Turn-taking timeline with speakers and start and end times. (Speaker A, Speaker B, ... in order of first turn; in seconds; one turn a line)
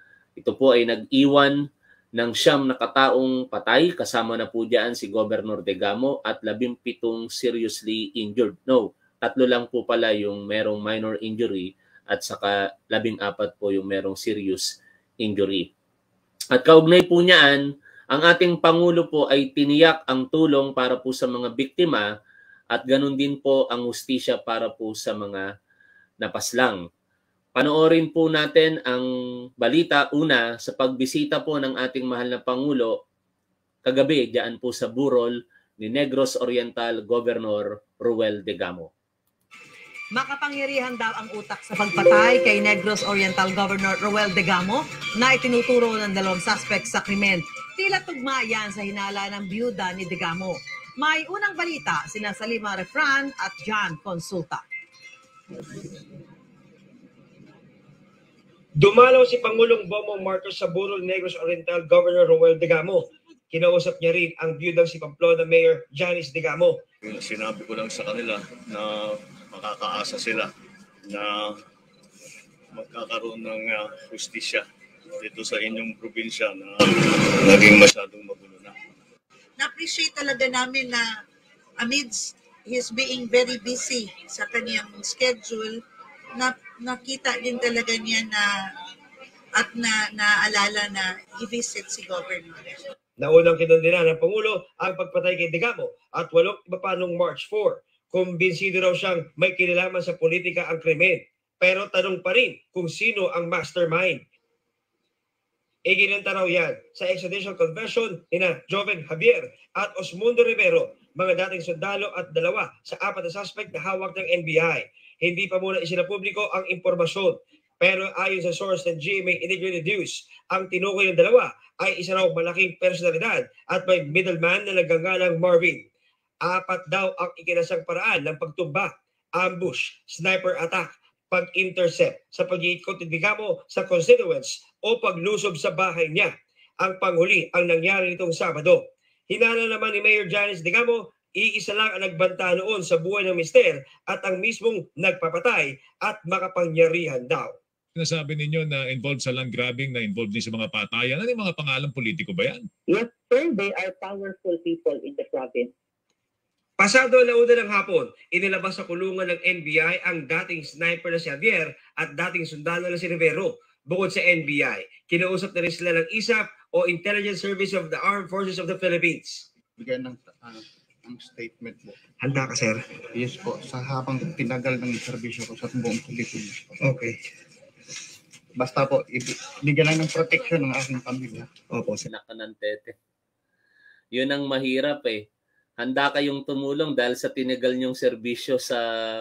Speaker A: 0.4-1.5
Speaker A: 2.2-14.7
Speaker A: 15.2-15.7
Speaker A: 16.5-17.6
Speaker A: 18.1-22.1
Speaker A: 22.7-25.4
Speaker A: 26.2-26.8
Speaker A: 27.6-29.1
Speaker A: 29.6-33.0
Speaker A: 33.8-38.9
Speaker B: 40.1-54.6
Speaker C: 58.8-66.8
Speaker D: 67.0-70.5
Speaker D: 71.1-71.6
Speaker D: 72.7-74.7
Speaker D: 75.2-78.7
Speaker E: 79.6-81.2
Speaker E: 81.8-85.8
Speaker E: 86.3-88.5
Speaker E: 89.6-92.8
Speaker C: 93.2-104.2
Speaker C: 105.9-125.8
Speaker C: 126.4-147.6
Speaker F: 148.0-152.7
Speaker G: 152.9-155.7
Speaker C: 156.8-169.5
Speaker H: 169.8-172.0
Speaker C: 172.2-172.8
Speaker H: 173.2-177.1
Speaker H: 178.6-181.9
Speaker A: 182.1-182.9
Speaker A: 184.2-185.2
Speaker A: 185.8-188.8